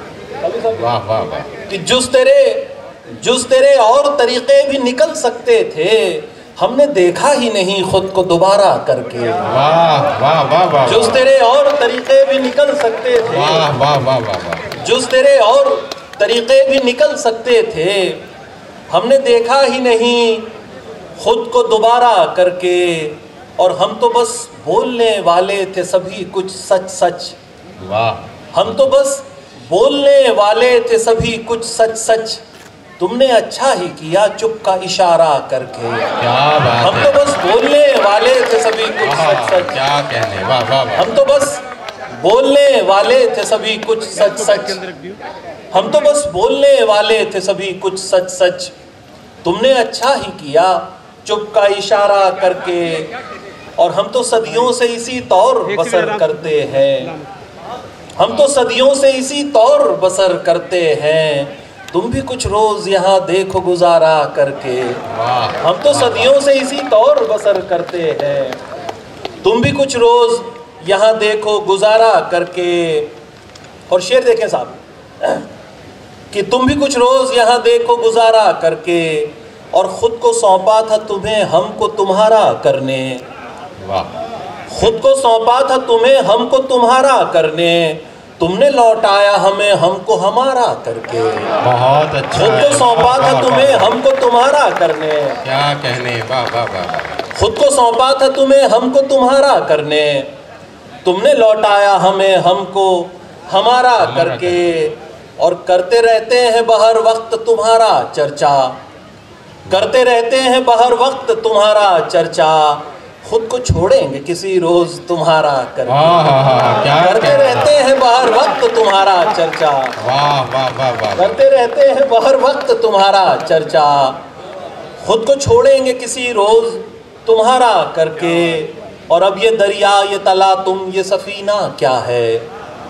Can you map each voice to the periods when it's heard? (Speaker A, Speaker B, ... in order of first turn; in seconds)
Speaker A: 0.4-0.9, 1.7-9.4, 10.8-13.7, 14.8-18.2, 18.9-20.5, 21.2-27.4, 28.5-32.4, 33.0-36.1, 36.8-39.8, 40.9-41.6, 42.1-44.9, 45.7-48.7, 49.4-53.1, 53.8-57.1, 58.2-65.0, 65.6-68.6, 69.4-73.1, 73.9-75.4, 76.3-83.2, 84.7-91.5, 92.3-95.4, 97.3-100.3, 101.0-108.8, 109.7-116.2, 117.0-120.0, 121.2-124.2, 125.0-132.5
Speaker B: 0.7-1.5, 9.4-11.2, 13.3-14.7, 27.8-28.2, 36.2-37.3, 39.0-41.1, 65.1-66.3, 83.8-84.1, 91.6-94.0, 95.4-97.2, 104.0-104.6, 115.9-117.7, 120.0-121.4